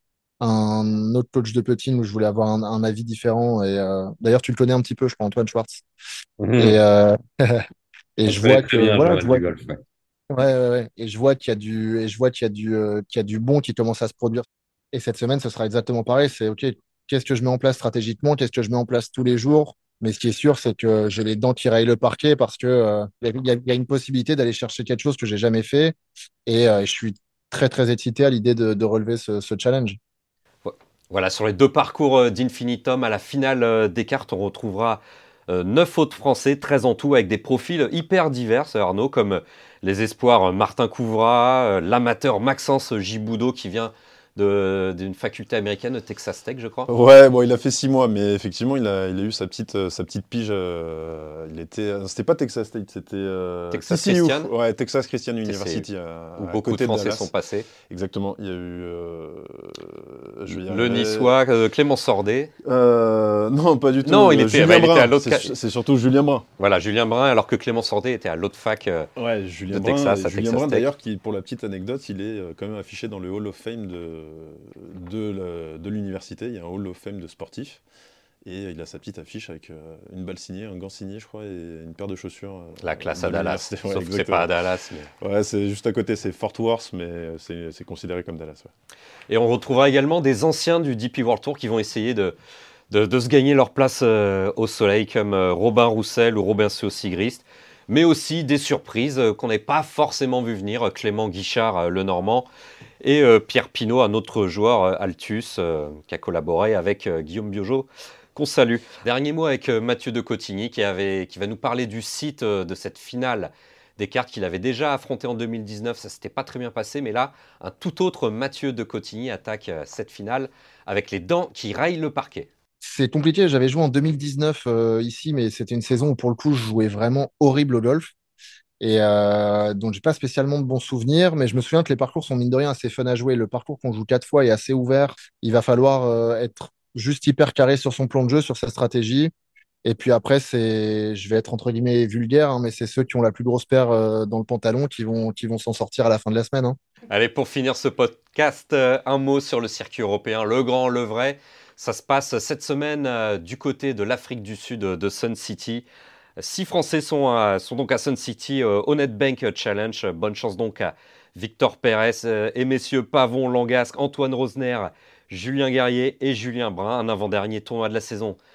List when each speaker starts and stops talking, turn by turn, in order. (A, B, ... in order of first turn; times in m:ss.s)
0:00.4-0:05.8 A
0:06.4-0:06.8 B
0:06.6-0:07.6 A
0:08.2-0:09.4 A
0:08.3-0:09.8 B
0:10.3-0:25.9 A
0:26.4-0:30.0 A
0:30.6-0:46.9 B
0:46.9-0:57.3 C
0:53.7-0:54.5 B
0:55.4-0:55.9 B
0:56.4-0:57.7 B
0:57.8-1:01.3 C
1:00.5-1:02.5 B
1:02.6-1:06.4 C
1:04.0-1:05.5 B
1:06.6-1:09.1 B
1:09.2-1:17.8 C
1:09.7-1:10.8 B
1:18.4-1:24.5 C
1:22.8-1:25.1 B
1:25.2-1:28.7 C
1:29.3-1:32.3 B
1:32.9-1:42.5 B
1:43.0-2:02.5 B
2:02.8-2:08.1 A
2:08.8-2:19.3 A
2:19.8-2:26.8 A
2:27.1-2:35.8 B
2:36.4-2:48.4 B